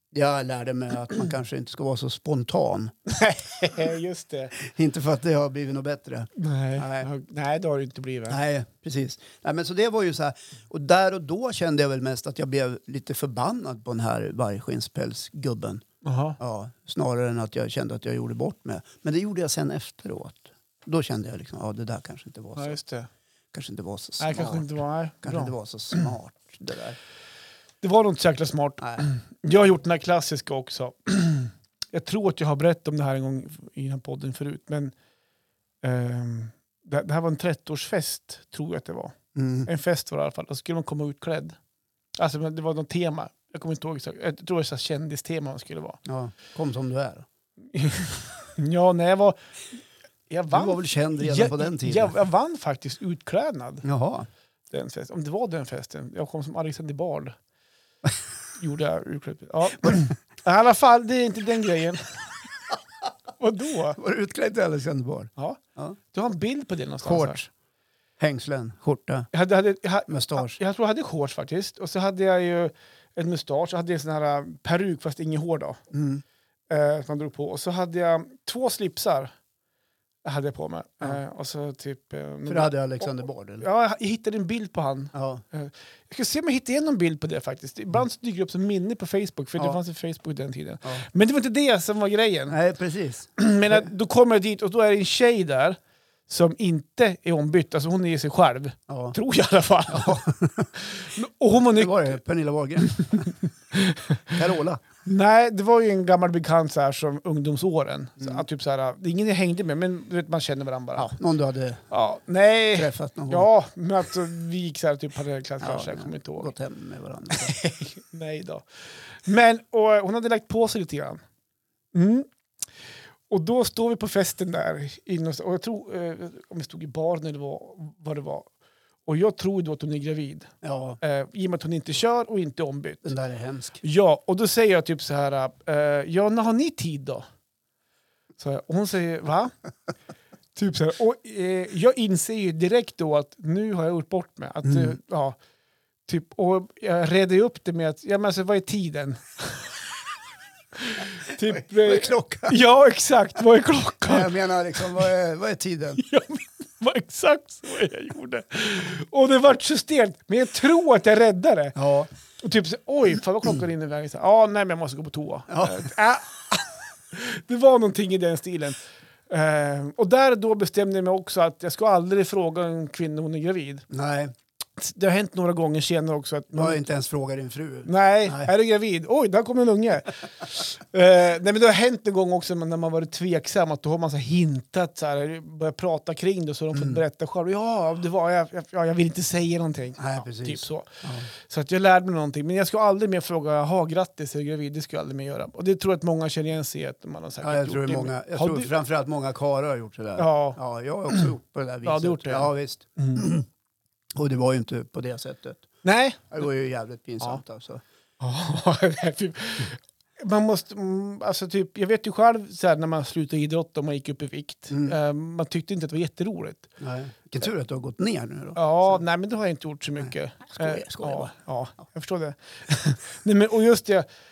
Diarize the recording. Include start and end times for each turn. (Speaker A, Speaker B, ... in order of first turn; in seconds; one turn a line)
Speaker A: 0.1-2.9
Speaker B: 3.1-4.5
Speaker A: 4.5-7.1
Speaker B: 6.4-8.4
Speaker A: 8.3-15.8
Speaker B: 16.0-16.4
Speaker A: 16.4-22.8
Speaker B: 22.6-23.1
Speaker A: 23.5-27.0
Speaker B: 24.2-26.1
Speaker B: 27.8-34.9
Speaker A: 28.8-29.1
Speaker B: 35.8-39.1
Speaker A: 39.3-39.7
Speaker B: 39.6-41.6
Speaker B: 42.1-46.0
Speaker A: 46.0-47.2
Speaker B: 47.7-49.4
Speaker B: 50.3-53.8
Speaker A: 50.5-52.1
Speaker A: 53.8-54.3
Speaker B: 54.7-57.4
Speaker B: 58.6-62.3
Speaker B: 63.4-64.0
Speaker A: 64.0-66.0
Speaker B: 66.1-67.4
Speaker A: 67.0-67.5
Speaker A: 68.2-69.3
Speaker B: 69.3-75.8
Speaker A: 70.1-70.6
Speaker A: 75.9-76.2
Speaker B: 76.7-79.3
Speaker B: 80.2-92.5
Speaker A: 82.5-83.7
Speaker A: 85.1-85.4
Speaker A: 92.5-93.9
Speaker B: 93.4-102.2
Speaker A: 98.9-99.2
Speaker A: 99.9-100.7
Speaker A: 101.7-103.3
Speaker B: 102.8-104.4
Speaker A: 104.3-104.8
Speaker B: 105.0-111.1
Speaker A: 111.0-111.8
Speaker B: 111.9-116.5
Speaker A: 112.7-113.5
Speaker A: 115.6-117.6
Speaker B: 117.3-121.2
Speaker B: 121.9-122.3
Speaker B: 123.3-128.5
Speaker B: 129.1-133.1
Speaker A: 130.6-131.0
Speaker A: 133.0-133.8
Speaker B: 133.8-137.2
Speaker B: 138.4-139.5
Speaker B: 140.5-145.4
Speaker A: 144.6-144.9
Speaker B: 146.1-149.9
Speaker B: 150.7-154.3
Speaker A: 151.2-152.6
Speaker A: 154.1-156.0
Speaker B: 156.0-161.8
Speaker A: 161.7-162.1
Speaker B: 162.4-173.9
Speaker A: 165.5-165.9
Speaker A: 173.9-174.3
Speaker B: 174.8-176.8
Speaker A: 176.5-178.5
Speaker B: 177.8-198.7
Speaker A: 186.7-187.0
Speaker A: 190.0-191.3
Speaker A: 197.4-203.5
Speaker B: 200.2-200.6
Speaker B: 201.8-203.2
Speaker A: 204.2-205.7
Speaker B: 205.8-206.3
Speaker A: 206.3-207.8
Speaker B: 208.2-216.7
Speaker A: 214.7-214.9
Speaker A: 216.8-219.0
Speaker B: 218.6-224.1
Speaker A: 220.0-221.3